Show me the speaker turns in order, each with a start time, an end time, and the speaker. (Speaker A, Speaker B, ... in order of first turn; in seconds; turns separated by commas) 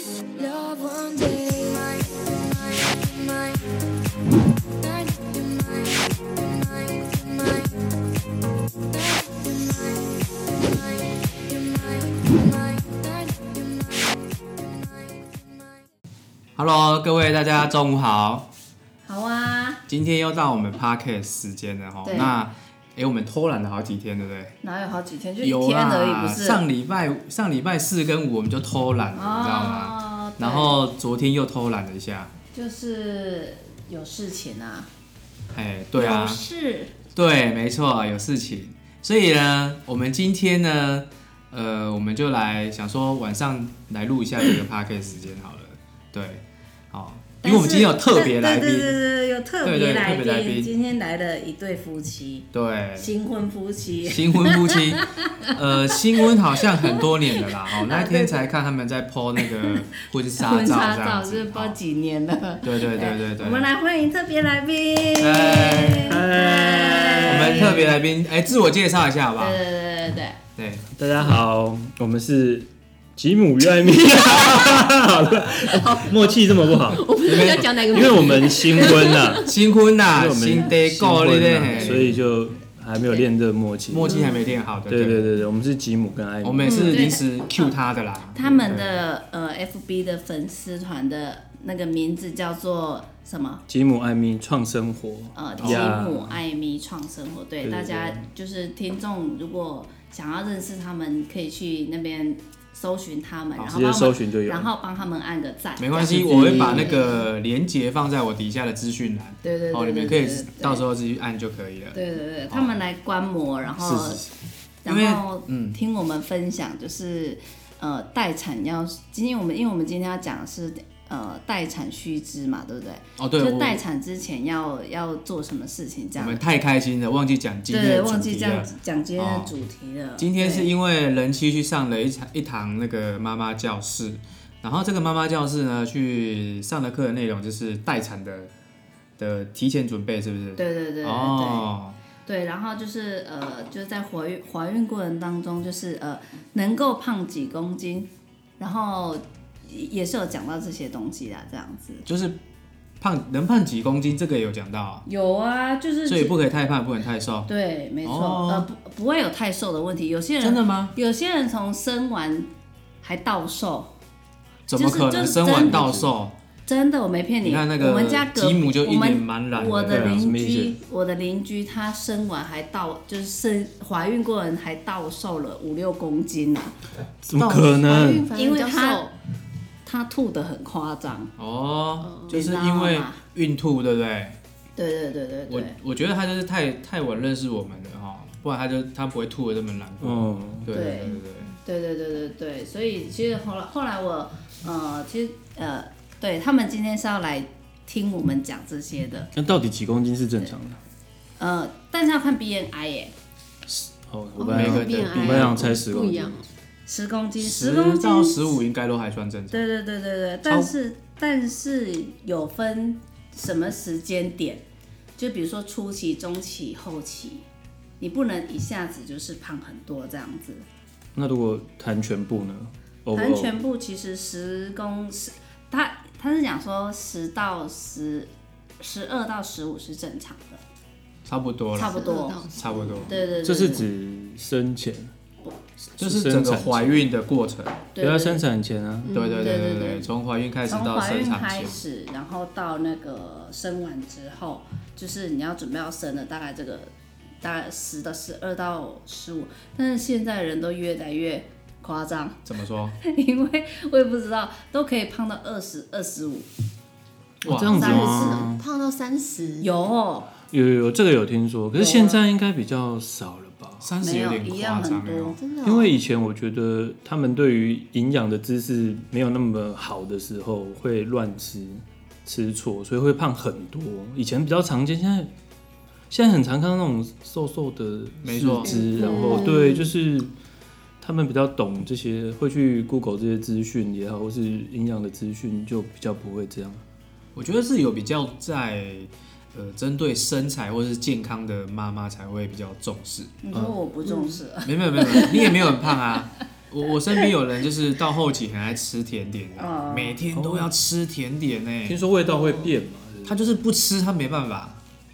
Speaker A: 0.3-3.7, Speaker A: 4.6-7.9, Speaker A: 8.7-9.6, Speaker A: 10.9-15.6, Speaker B: 16.6-18.5, Speaker C: 19.0-19.8, Speaker B: 19.9-24.5, Speaker C: 22.0-22.3, Speaker C: 24.6-26.6, Speaker B: 25.4-32.3, Speaker C: 29.1-30.8, Speaker C: 32.5-34.9, Speaker B: 35.5-36.4, Speaker C: 35.9-37.0, Speaker B: 37.1-49.0, Speaker C: 47.4-58.5, Speaker B: 49.6-50.7, Speaker B: 52.5-53.1, Speaker B: 54.0-61.8, Speaker C: 60.3-67.7, Speaker B: 62.6-63.7, Speaker B: 65.2-66.2, Speaker D: 66.0-68.0, Speaker B: 67.3-69.6, Speaker C: 69.4-70.4, Speaker B: 70.6-70.9, Speaker D: 71.0-84.2, Speaker A: 75.8-79.5, Speaker B: 77.2-78.5, Speaker B: 79.3-82.2, Speaker B: 83.9-85.3, Speaker A: 84.0-84.5, Speaker D: 84.9-87.0, Speaker B: 86.4-88.9, Speaker A: 86.7-87.0, Speaker C: 86.8-87.3, Speaker C: 88.3-93.6, Speaker D: 93.7-96.4, Speaker C: 95.3-107.2, Speaker B: 95.6-96.0, Speaker D: 97.6-98.3, Speaker D: 103.7-104.7, Speaker B: 105.8-112.8, Speaker D: 106.0-107.0, Speaker C: 109.4-110.8, Speaker C: 111.9-114.2, Speaker B: 113.8-114.2, Speaker C: 114.8-126.4, Speaker B: 114.8-115.8, Speaker B: 123.2-123.8, Speaker B: 126.2-129.5, Speaker C: 127.7-130.7, Speaker B: 130.2-138.5, Speaker B: 139.2-142.0, Speaker C: 140.6-141.7, Speaker C: 142.2-152.1, Speaker B: 152.1-152.4, Speaker B: 153.0-155.0, Speaker C: 155.1-156.4, Speaker B: 156.1-157.5, Speaker C: 157.5-162.5, Speaker B: 158.0-158.7, Speaker B: 160.4-160.9, Speaker C: 163.0-163.9, Speaker B: 164.7-166.3, Speaker C: 164.7-165.9, Speaker D: 165.7-166.0, Speaker C: 166.7-176.8, Speaker B: 167.4-170.2, Speaker D: 169.9-170.8, Speaker D: 177.2-178.3, Speaker C: 177.3-179.1, Speaker A: 177.9-179.1, Speaker C: 179.8-181.3, Speaker B: 181.4-184.4, Speaker A: 182.0-182.4, Speaker C: 182.3-183.2, Speaker C: 184.8-185.8, Speaker B: 185.5-191.6, Speaker D: 190.0-190.7, Speaker C: 190.7-199.3, Speaker D: 199.3-200.8, Speaker C: 201.4-203.1, Speaker D: 203.9-206.3, Speaker A: 204.4-206.5, Speaker B: 204.5-205.8, Speaker C: 206.8-208.6, Speaker B: 207.4-209.7, Speaker C: 209.5-214.6, Speaker B: 210.4-210.7, Speaker C: 215.2-217.4, Speaker C: 218.0-220.6, Speaker D: 221.2-223.6, Speaker C: 223.1-230.6, Speaker B: 231.2-233.2, Speaker C: 231.7-232.5, Speaker A: 231.9-233.2, Speaker C: 233.1-233.9, Speaker D: 233.4-235.1, Speaker D: 236.0-237.1, Speaker B: 236.0-237.9, Speaker C: 237.9-238.4, Speaker D: 238.0-239.1, Speaker A: 239.0-239.8, Speaker B: 239.1-241.8, Speaker C: 239.4-240.1, Speaker C: 240.7-252.4, Speaker B: 252.4-253.0, Speaker C: 253.0-256.5, Speaker B: 257.4-258.0, Speaker D: 257.4-258.6, Speaker C: 257.7-258.5, Speaker A: 257.8-259.7, Speaker C: 259.6-260.3, Speaker D: 260.5-263.9, Speaker C: 261.7-262.2, Speaker B: 263.8-265.4, Speaker C: 264.0-265.4, Speaker A: 265.4-266.0, Speaker D: 265.6-275.3, Speaker D: 276.1-280.3, Speaker B: 278.2-278.8, Speaker A: 278.6-279.9, Speaker D: 281.0-286.8, Speaker B: 287.3-293.3, Speaker C: 293.4-295.7, Speaker A: 294.1-294.4, Speaker B: 294.6-302.0, Speaker C: 299.6-300.2, Speaker D: 300.3-300.7, Speaker D: 301.9-303.6, Speaker A: 302.3-302.8, Speaker B: 303.2-304.8